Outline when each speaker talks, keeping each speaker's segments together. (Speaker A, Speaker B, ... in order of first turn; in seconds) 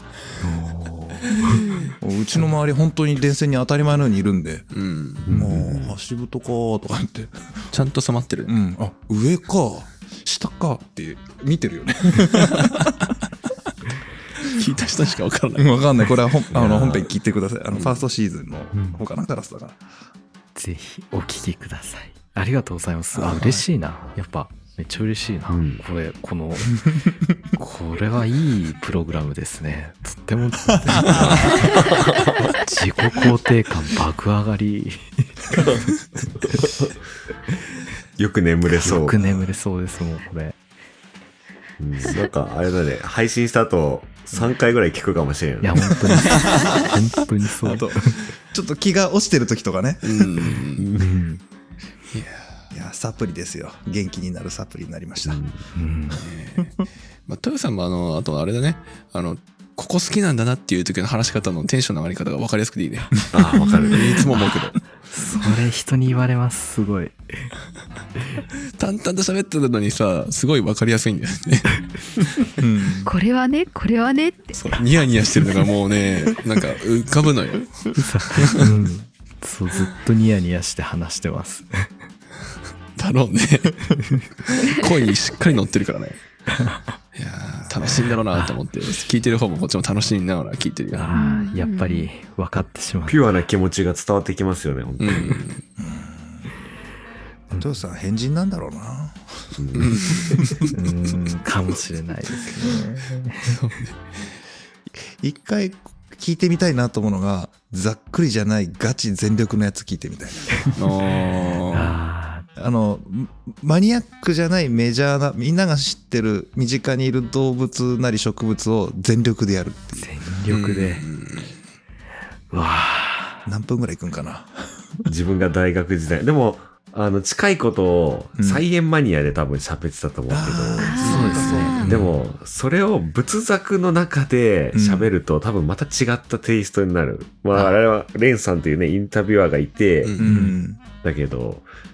Speaker A: 0.4-1.6, 18.7-19.0, 20.5-26.9, 27.5-31.8, 32.5-35.6, 38.7-40.6, 45.6-48.2, 51.0-51.4, 55.7-56.2, 65.1-67.5, 78.0-81.9, 86.5-86.9, 90.9-93.2, 100.7-103.6, 111.6-112.5, 120.0-121.0, 122.5-123.5, 131.0-132.1
Speaker B: 1.3-1.9, 63.6-64.1, 73.0-74.7, 91.1-92.1, 130.8-131.9
Speaker C: 2.0-4.7, 5.3-7.7, 8.5-12.9, 15.6-19.8, 23.1-23.6, 47.6-50.5, 52.7-55.4, 72.6-73.1, 95.8-96.5, 97.5-100.6, 105.0-110.7, 112.5-120.1, 123.5-125.1, 128.4-128.6, 130.3-132.0, 134.7-135.1, 140.2-140.8
Speaker D: 4.7-5.3, 7.7-8.6, 12.5-12.9, 14.4-16.0, 46.3-46.7, 50.0-50.9, 52.1-52.6, 56.1-56.7, 57.3-63.3, 63.9-64.8, 68.8-71.9, 74.6-78.6, 83.0-86.2, 87.1-91.1, 95.0-95.6, 99.8-100.7, 103.4-104.0, 110.7-111.9, 120.5-121.6, 131.1-131.3, 140.0-140.5
Speaker E: 5.2-6.0, 16.5-17.0, 25.5-25.8, 31.0-32.5, 35.5-36.9, 38.2-39.2, 41.8-46.0, 50.8-51.1, 55.3-55.6, 63.3-64.2, 93.1-95.4, 99.6-100.5, 125.1-131.1, 131.8-140.3, 141.0-141.7